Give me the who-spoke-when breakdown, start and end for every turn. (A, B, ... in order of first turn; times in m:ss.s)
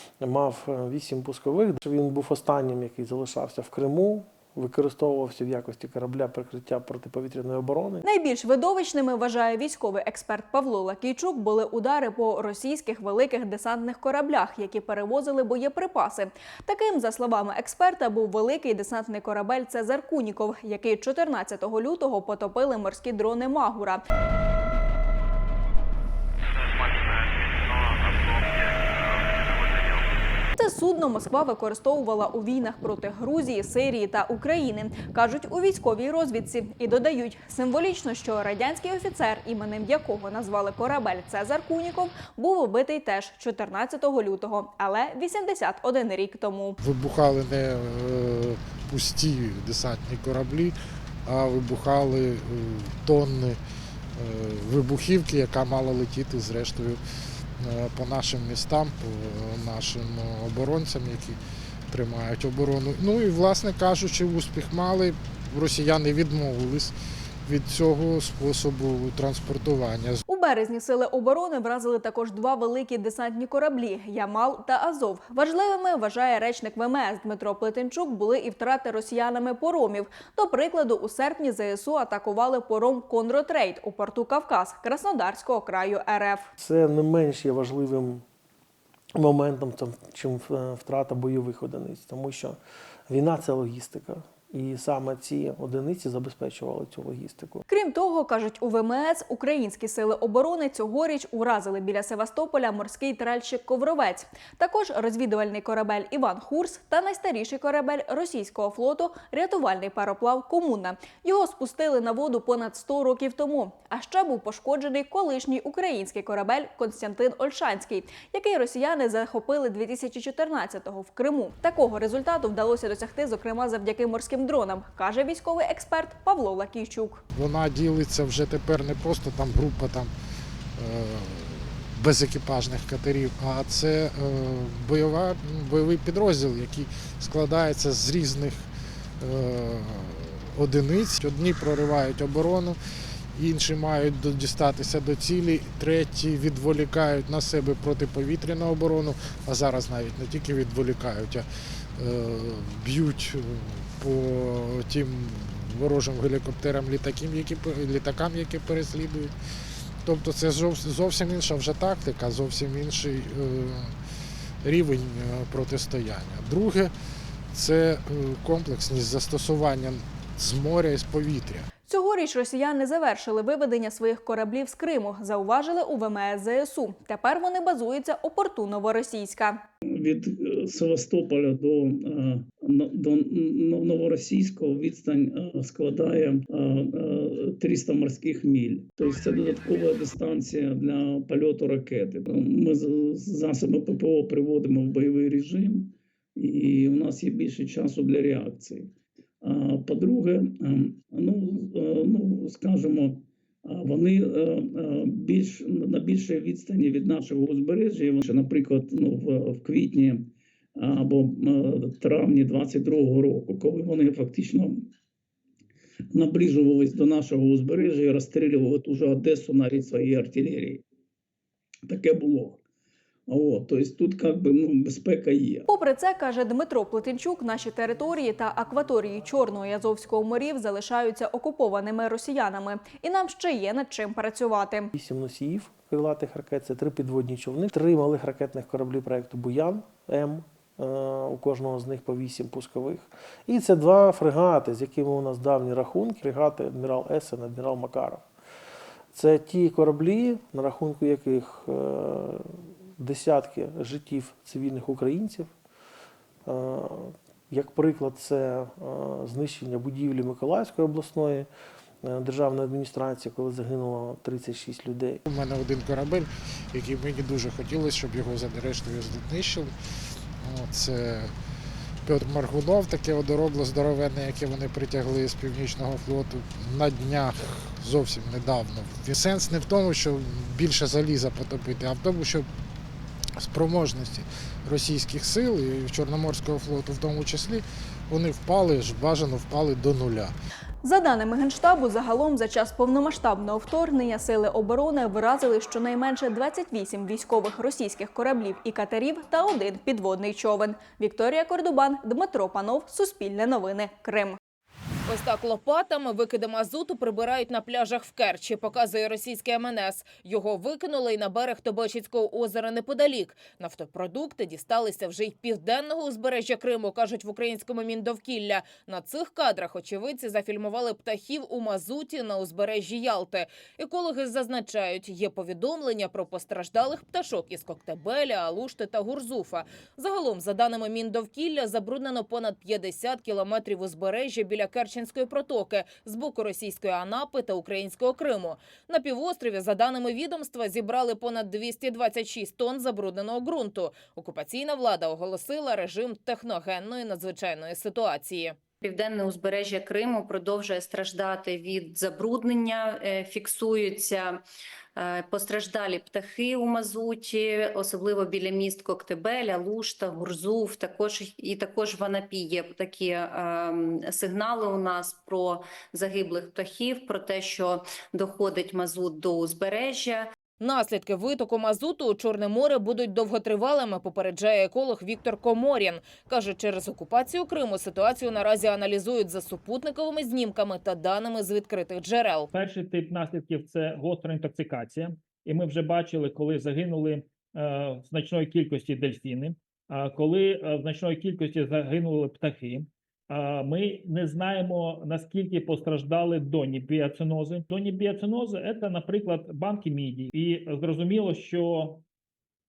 0:00.2-0:08.0 A
0:08.0-0:24.0 B
0:30.6-0:46.8 B
0:46.8-0:53.6 C
0:54.1-0:57.0 C
0:57.6-1:01.4 C
1:01.9-1:06.9 C
1:07.4-1:10.2 C
1:10.3-1:26.5 B
1:26.6-1:28.2 A
1:29.2-1:37.6 A
1:37.7-2:07.2 B
2:07.3-2:10.1 C
2:10.8-2:18.7 C
2:19.2-2:22.8 C
2:23.3-2:31.4 C
2:32.0-2:39.3 C
2:40.0-2:43.9 C
2:44.6-2:46.9 C
2:47.5-2:51.7 C
2:51.9-2:59.6 B
3:00.0-3:34.9 D
3:36.1-3:40.8 D
3:41.9-3:42.6 D
3:43.3-3:45.7 D
3:45.7-3:54.9 B
3:54.9-4:08.2 A
4:09.1-4:15.5 A
4:16.4-4:21.5 A
4:22.0-4:25.2 A
4:25.3-4:29.7 C
4:30.4-4:31.3 C
4:32.0-4:42.5 C
4:43.4-4:50.3 C
4:50.8-5:04.4 B
5:05.0-5:48.6 E
5:48.8-5:54.4 F
5:55.0-6:10.3 F
6:10.6-6:22.5 E
6:22.5-6:42.0 G